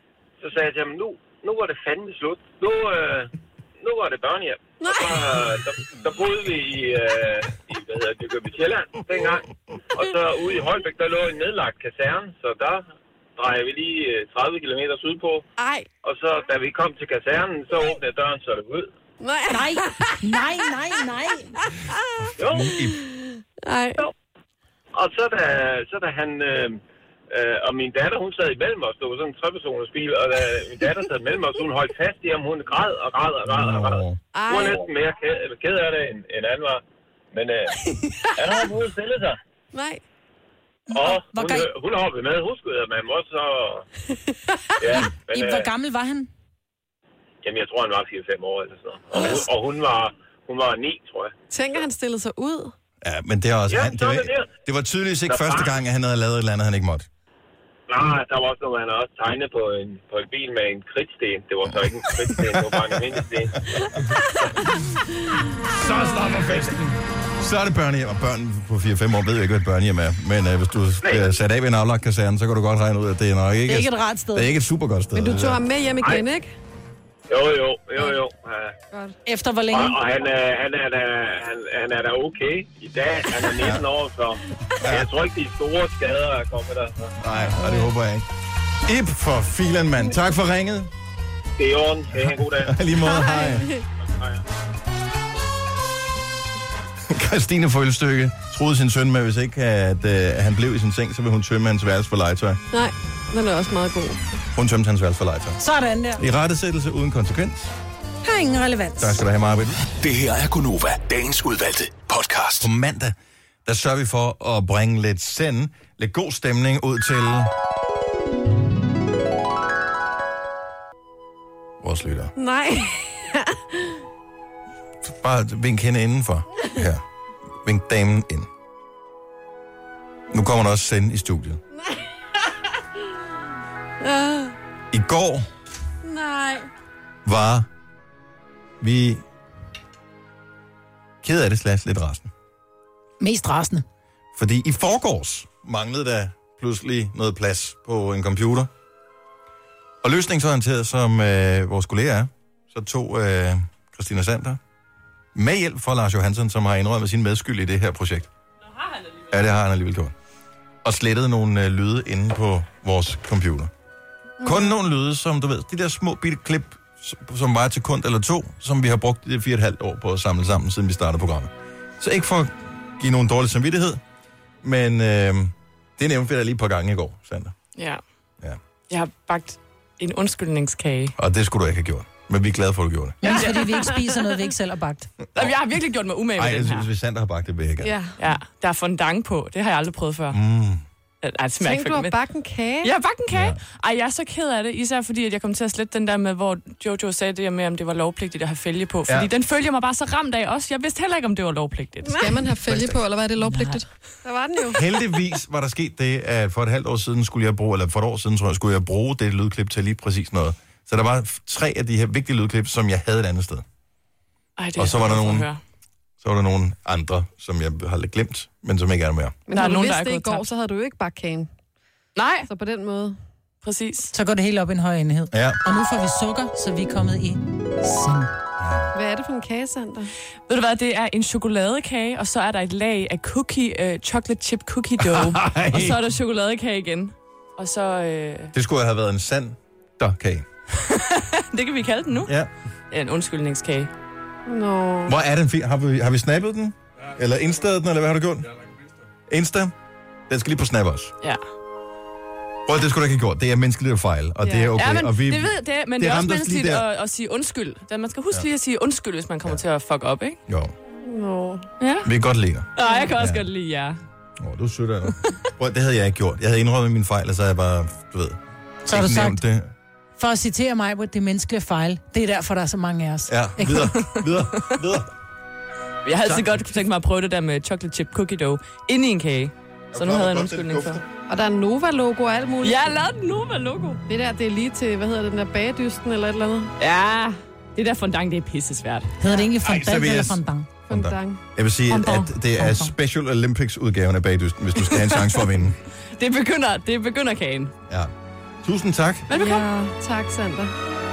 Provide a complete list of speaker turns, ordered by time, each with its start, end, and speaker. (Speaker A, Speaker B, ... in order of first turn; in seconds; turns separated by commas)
Speaker A: 0.4-15.4, Speaker B: 4.8-5.5, Speaker B: 15.6-15.9, Speaker A: 16.0-18.9, Speaker B: 19.2-20.3, Speaker C: 19.5-21.5, Speaker A: 22.4-22.8, Speaker B: 22.6-24.1, Speaker D: 22.6-22.9, Speaker A: 24.9-26.8, Speaker A: 27.3-37.8, Speaker D: 33.5-34.2, Speaker B: 34.3-34.9, Speaker B: 38.1-38.6, Speaker A: 38.4-39.4, Speaker B: 39.7-40.0, Speaker C: 40.9-41.7, Speaker A: 40.9-43.9, Speaker A: 44.8-45.7, Speaker C: 45.3-46.3, Speaker A: 47.4-51.3, Speaker B: 49.1-49.5, Speaker B: 51.5-52.7, Speaker D: 53.0-57.1, Speaker A: 53.7-54.5, Speaker A: 55.3-55.8, Speaker A: 57.9-63.6, Speaker D: 62.2-63.2, Speaker D: 65.8-66.8, Speaker D: 67.4-75.6, Speaker A: 71.0-71.4, Speaker C: 73.7-74.5, Speaker B: 75.1-76.5, Speaker A: 77.3-78.8, Speaker C: 79.3-80.0, Speaker A: 79.7-87.2, Speaker D: 83.5-83.8, Speaker D: 84.8-85.1, Speaker D: 87.2-88.3, Speaker D: 88.8-90.9, Speaker A: 91.6-92.8, Speaker D: 92.1-93.7, Speaker B: 93.0-93.8, Speaker D: 97.1-102.6, Speaker B: 102.7-104.2, Speaker D: 104.5-105.6, Speaker C: 105.6-106.2, Speaker D: 106.2-107.7, Speaker C: 108.2-109.2, Speaker D: 109.0-109.8, Speaker E: 110.0-112.7, Speaker D: 112.6-117.5, Speaker D: 121.8-122.3, Speaker B: 122.4-124.0, Speaker D: 125.0-127.0, Speaker D: 127.6-128.5, Speaker D: 130.3-131.6, Speaker B: 131.8-132.0, Speaker B: 134.0-134.6, Speaker D: 134.9-135.5, Speaker B: 136.0-136.7, Speaker D: 137.2-137.7, Speaker D: 138.8-139.2, Speaker D: 141.2-142.3, Speaker C: 143.2-143.8, Speaker D: 144.3-148.7, Speaker D: 150.0-154.6, Speaker D: 155.3-158.3, Speaker D: 159.3-160.1, Speaker D: 160.8-163.7, Speaker B: 164.4-164.8, Speaker D: 164.4-174.0, Speaker D: 174.6-177.6, Speaker F: 177.8-178.0, Speaker F: 178.9-181.1, Speaker D: 181.2-183.5, Speaker C: 183.2-185.1, Speaker F: 183.3-184.1, Speaker F: 185.3-186.9, Speaker D: 186.4-187.9, Speaker B: 187.8-188.2, Speaker F: 188.2-190.4, Speaker D: 190.3-190.8, Speaker F: 191.2-192.2, Speaker B: 191.6-192.9, Speaker F: 192.8-202.4, Speaker D: 193.3-193.6, Speaker B: 202.1-204.8, Speaker D: 202.7-203.0, Speaker C: 203.4-203.8, Speaker D: 204.7-213.6, Speaker F: 214.6-215.6, Speaker D: 214.8-215.5, Speaker D: 216.2-219.4, Speaker B: 219.5-221.5, Speaker F: 219.5-220.5, Speaker F: 222.2-222.5, Speaker B: 222.5-223.2, Speaker F: 223.6-224.1, Speaker C: 224.1-228.3, Speaker D: 225.3-225.6, Speaker D: 228.6-228.9, Speaker B: 228.9-230.1, Speaker F: 230.5-238.5, Speaker D: 235.0-236.0, Speaker D: 238.5-240.5, Speaker F: 240.9-242.3, Speaker F: 242.9-243.9, Speaker B: 244.5-245.1, Speaker D: 245.1-248.5, Speaker D: 249.3-249.8, Speaker D: 250.3-251.1, Speaker D: 252.7-256.8, Speaker F: 254.4-260.4, Speaker D: 260.5-260.7, Speaker B: 261.1-261.7, Speaker F: 261.8-262.1, Speaker D: 262.1-262.7, Speaker F: 262.8-264.0, Speaker B: 262.8-263.1, Speaker D: 263.2-263.4, Speaker D: 264.4-269.7, Speaker C: 268.9-269.4, Speaker C: 270.2-274.0, Speaker D: 273.3-275.1, Speaker F: 276.1-281.0, Speaker D: 276.2-276.8, Speaker D: 279.9-281.0, Speaker B: 281.3-282.9, Speaker F: 282.6-284.0, Speaker B: 284.1-286.7, Speaker F: 286.8-289.2, Speaker C: 289.2-290.7, Speaker D: 289.6-295.8, Speaker B: 290.9-291.4, Speaker F: 291.9-292.8, Speaker C: 292.6-292.9, Speaker F: 294.8-295.5, Speaker F: 296.1-297.7, Speaker D: 298.6-299.3, Speaker F: 299.3-299.7, Speaker B: 299.3-300.7